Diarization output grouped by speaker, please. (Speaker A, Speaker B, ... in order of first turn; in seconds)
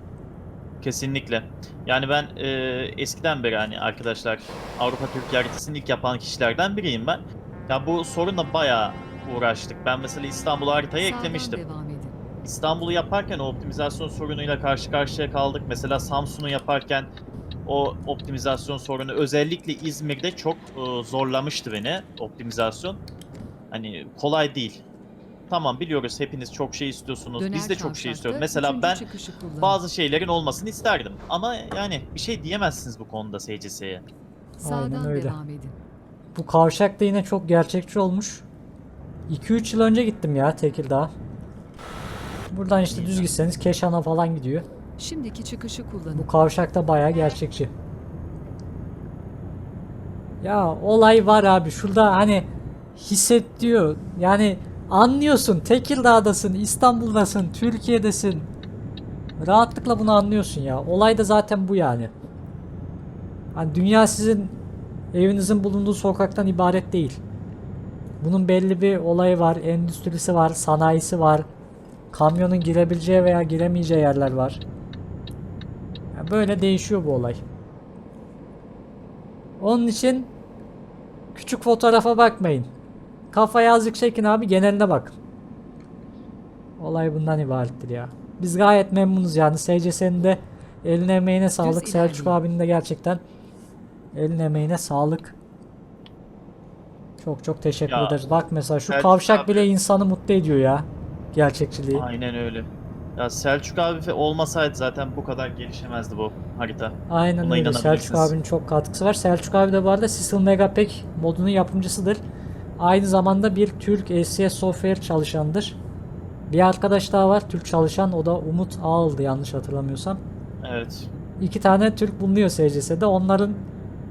Speaker A: 0.8-11.6, 12.4-17.1, 17.7-23.0, 23.7-24.8, 25.5-29.1, 29.6-34.0, 42.9-43.3, 97.9-98.2, 98.9-99.7, 101.9-108.3, 120.6-121.1
Speaker B: 11.0-12.2, 27.4-29.8, 34.6-35.8, 45.0-46.3, 91.6-92.4
Speaker C: 34.6-35.4, 36.4-38.5, 39.3-41.1, 42.5-44.7, 46.1-47.7, 50.4-58.5, 59.4-62.1, 63.5-64.6, 65.1-67.2, 68.2-71.5, 72.1-74.6, 76.1-77.4, 79.6-80.3, 81.3-82.7, 83.3-85.2, 86.8-93.2, 94.1-95.4, 97.2-102.1, 107.1-112.2, 112.8-115.8, 116.5-120.2, 121.4-123.7